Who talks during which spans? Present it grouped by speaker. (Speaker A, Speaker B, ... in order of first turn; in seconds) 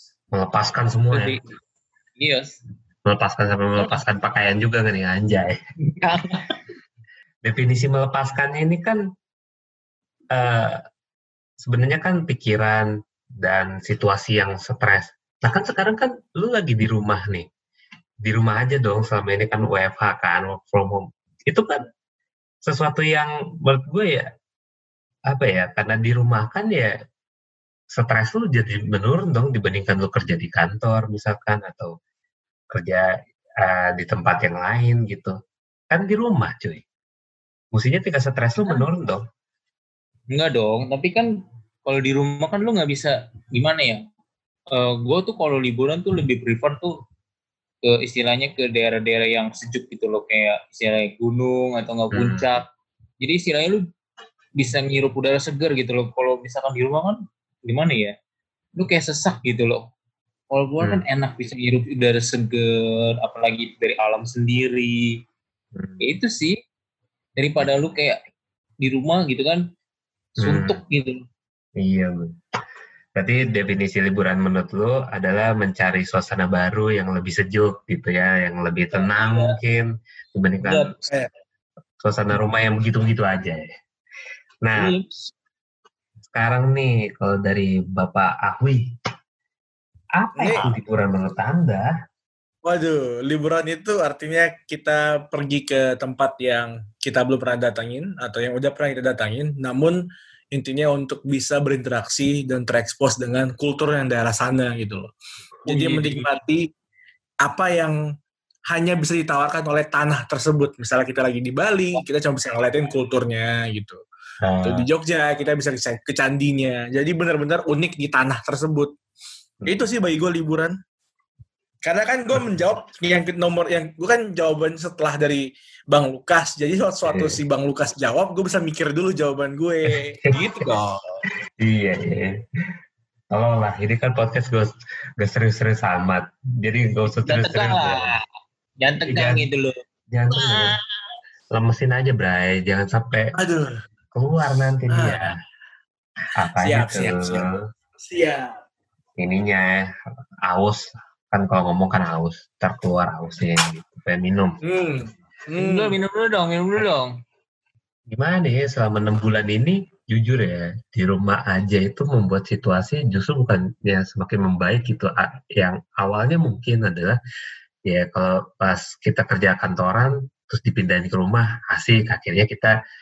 Speaker A: 0.3-1.4, 3.1-5.6, 7.4-9.0, 10.3-10.8, 11.6-12.9, 13.4-17.5, 18.2-21.9, 22.6-24.3, 25.3-26.9, 27.9-31.9, 32.7-35.4, 35.9-36.8, 37.7-39.2, 52.1-52.5, 65.8-66.1, 67.6-67.9, 70.4-70.8, 71.8-72.3, 73.2-81.0, 82.0-83.6, 84.6-84.9, 86.3-88.9, 90.2-91.9, 114.4-114.9, 119.6-119.9, 127.1-127.4, 131.6-132.4, 133.3-138.1, 139.1-139.5, 140.1-140.8, 141.5-143.3, 144.1-145.4, 146.3-147.6, 149.2-149.9, 150.4-154.6, 158.1-167.2, 167.9-172.7
Speaker B: 1.1-1.6, 2.2-2.6, 3.8-4.0, 6.0-6.6, 40.3-41.3, 41.9-44.0, 44.7-46.9, 47.8-52.6, 53.2-53.9, 54.6-58.1, 58.8-59.8, 60.5-65.1, 66.0-66.6, 67.4-68.2, 68.8-69.6, 70.4-71.2, 79.0-79.5, 80.6-81.0, 84.7-85.3, 105.7-106.2, 137.3-138.2, 138.8-139.8, 140.4-140.7, 155.6-157.1
Speaker C: 90.4-90.7, 92.6-105.1, 105.7-106.7, 107.4-108.0, 108.7-114.0, 114.6-118.9, 119.7-120.8, 121.8-131.0, 143.4-143.7, 144.9-145.3, 146.6-147.4, 148.0-148.5, 154.6-155.9